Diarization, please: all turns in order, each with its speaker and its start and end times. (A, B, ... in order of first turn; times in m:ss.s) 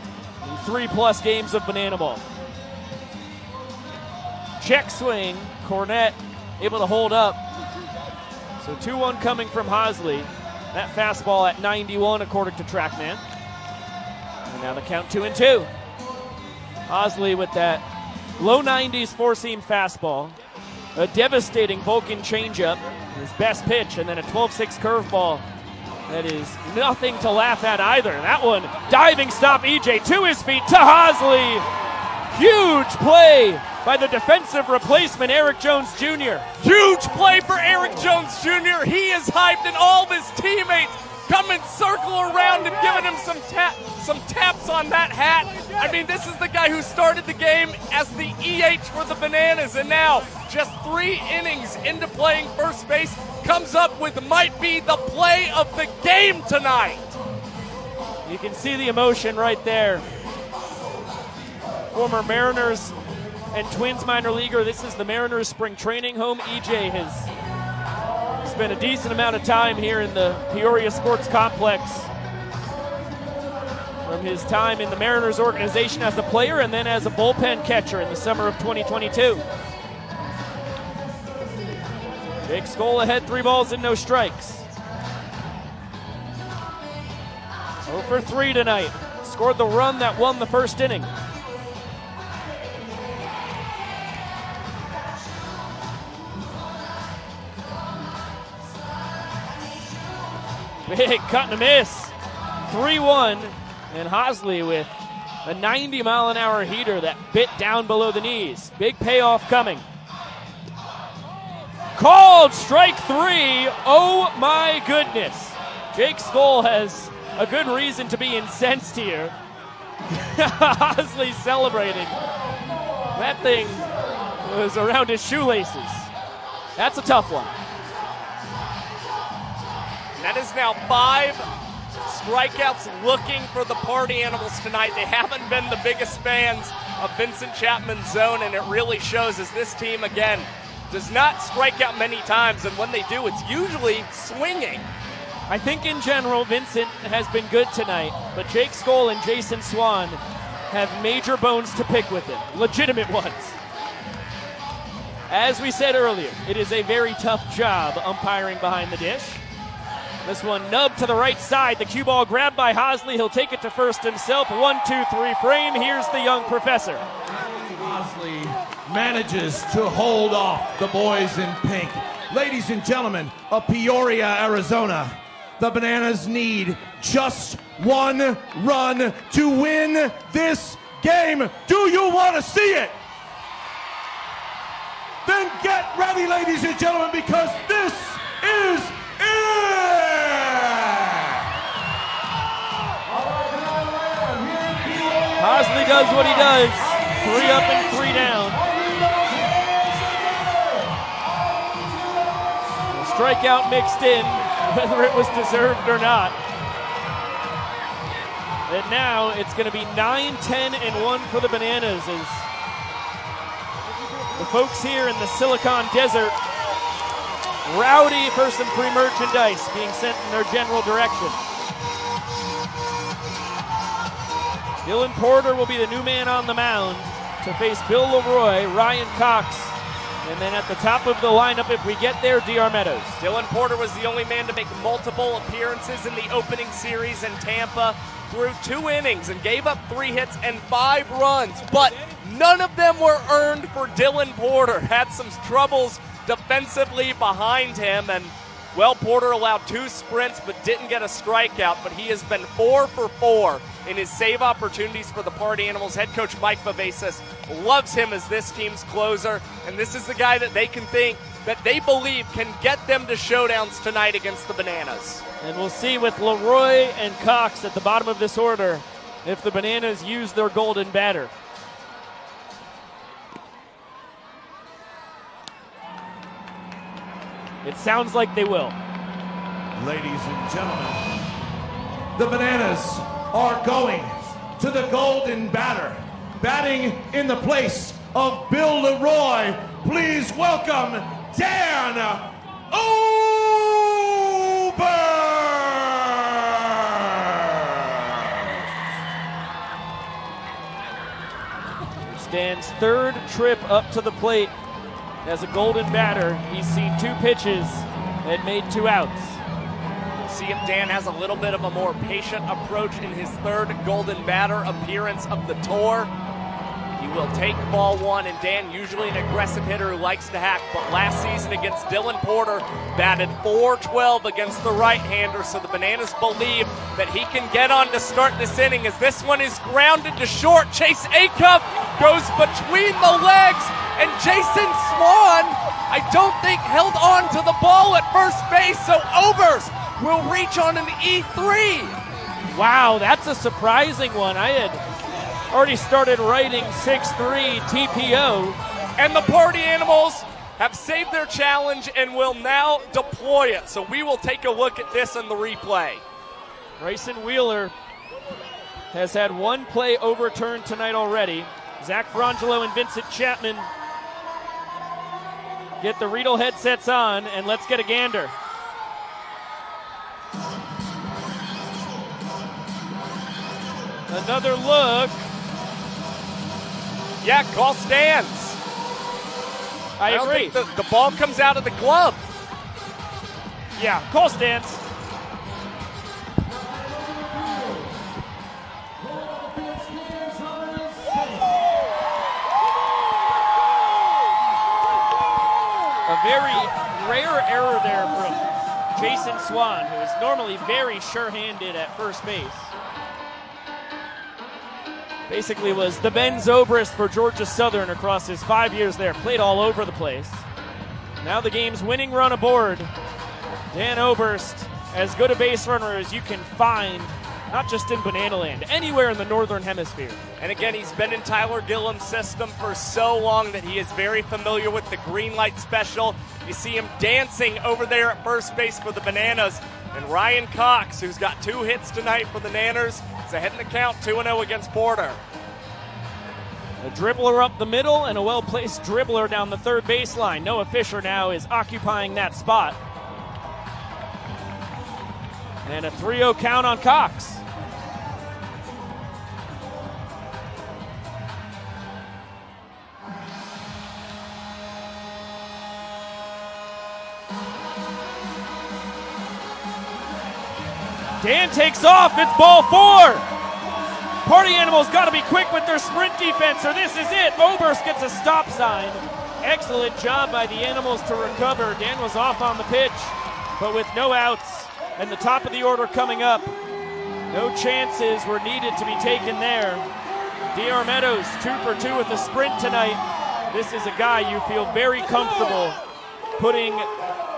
0:00.4-0:02.2 A
0:04.6-0:07.4 A
0:08.6-0:13.2 A
0:14.5-0:15.7 A
0:16.9-0:17.8 A
0:18.4-0:20.3 A
0:20.9-0:25.4 A
0:26.1-0:31.6 A
0:32.3-0:36.4 A
0:36.6-0:57.2 B
0:58.2-1:00.0 A
1:01.9-1:03.0 A
1:03.5-1:07.3 A
1:08.4-1:12.1 A
1:14.0-1:19.4 A
1:22.4-1:24.6 A
1:27.9-1:31.1 A
1:40.8-1:42.1 A
1:42.7-1:44.9 A
1:45.4-1:49.8 A
1:51.9-1:59.3 A
2:00.1-2:02.2 A
2:03.1-2:03.9 A
2:04.4-2:06.1 A
2:06.8-2:07.5 A
2:10.2-2:11.4 B
2:12.0-2:24.9 B
2:25.5-2:30.2 A
2:30.7-2:33.6 A
2:35.3-2:39.4 A
2:40.2-2:47.0 A
2:47.5-3:03.0 C
3:05.2-3:11.5 C
3:13.0-3:23.0 C
3:15.4-3:18.6 A
3:22.9-3:26.4 A
3:28.7-3:32.5 A
3:34.3-3:36.3 A
3:37.6-3:41.4 A
3:44.8-3:53.2 A
3:53.2-4:25.2 B
4:25.4-4:31.3 A
4:37.6-4:38.8 A
4:39.8-4:41.0 C
4:42.2-4:58.3 C
5:02.0-5:04.5 A
5:05.2-5:09.4 A
5:10.3-5:16.1 B
5:17.0-5:42.0 B
5:42.5-5:44.8 A
5:45.5-5:48.6 A
5:49.0-5:56.0 B
5:56.8-5:57.7 A
5:58.9-6:03.7 A
6:05.8-6:08.3 A
6:14.1-6:15.3 A
6:17.2-6:18.6 B
6:20.0-6:20.6 A
6:20.1-6:22.2 B
6:23.8-6:24.8 A
6:26.7-6:27.9 C
6:29.0-6:31.6 C
6:36.0-6:42.7 A
6:45.3-6:50.4 A
6:51.2-6:52.9 A
6:53.7-7:00.2 A
7:00.4-7:15.2 B
7:16.8-7:22.8 A
7:25.6-7:27.4 A
7:41.2-7:43.2 A
7:44.2-7:56.5 A
7:57.3-7:59.8 A
8:00.5-8:05.8 A
8:06.4-8:06.9 A